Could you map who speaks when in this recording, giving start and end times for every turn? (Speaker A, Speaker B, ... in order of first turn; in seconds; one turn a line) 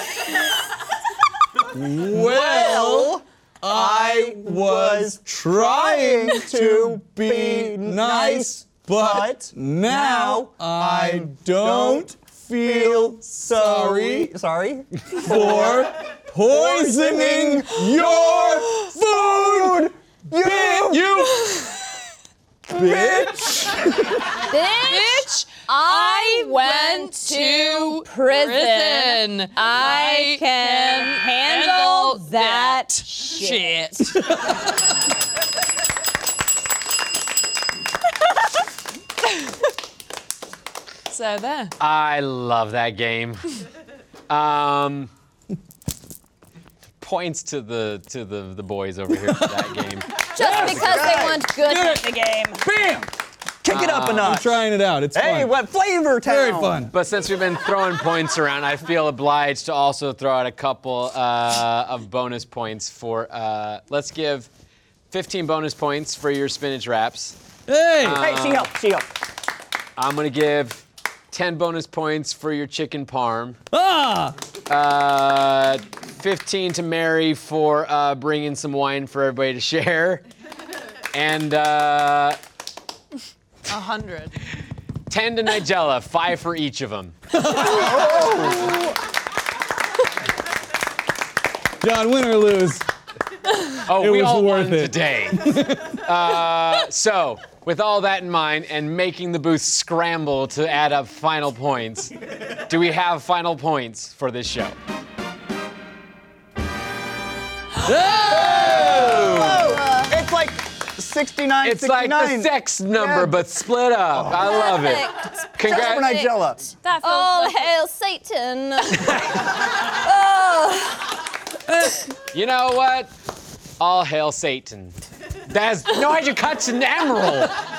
Speaker A: 1.7-14.3
Speaker B: 2.1-21.4
Speaker A: 15.1-21.8
Speaker A: 22.7-24.3
Speaker B: 22.7-24.2
Speaker C: 24.5-34.1
Speaker D: 24.8-34.3
Speaker D: 41.1-41.7
Speaker E: 41.8-43.4
Speaker E: 44.3-45.1
Speaker E: 47.0-51.3
Speaker A: 49.2-49.8
Speaker C: 50.4-52.6
Speaker B: 50.4-53.1
Speaker B: 53.6-54.5
Speaker E: 53.7-54.4
Speaker A: 54.2-55.5
Speaker B: 55.1-56.9
Speaker A: 56.2-56.9
Speaker E: 56.9-64.5
Speaker E: 65.1-67.4
Speaker A: 67.7-68.2
Speaker E: 68.0-68.7
Speaker B: 68.0-69.1
Speaker E: 70.0-73.6
Speaker A: 73.7-74.3
Speaker E: 74.7-80.2
Speaker E: 81.1-82.4
Speaker D: 83.7-84.3
Speaker E: 85.1-87.2
Speaker A: 87.3-88.4
Speaker B: 87.6-88.9
Speaker A: 91.8-92.8
Speaker E: 93.9-104.8
Speaker A: 93.9-96.0
Speaker A: 107.8-109.5
Speaker E: 108.3-109.6
Speaker B: 108.3-113.5
Speaker C: 109.4-110.1
Speaker E: 111.6-116.1
Speaker B: 114.1-114.5
Speaker C: 114.3-116.4
Speaker B: 115.6-116.7
Speaker D: 116.8-117.7
Speaker C: 117.0-121.2
Speaker E: 119.1-119.4
Speaker A: 121.7-122.1
Speaker E: 122.3-123.1
Speaker E: 123.8-127.5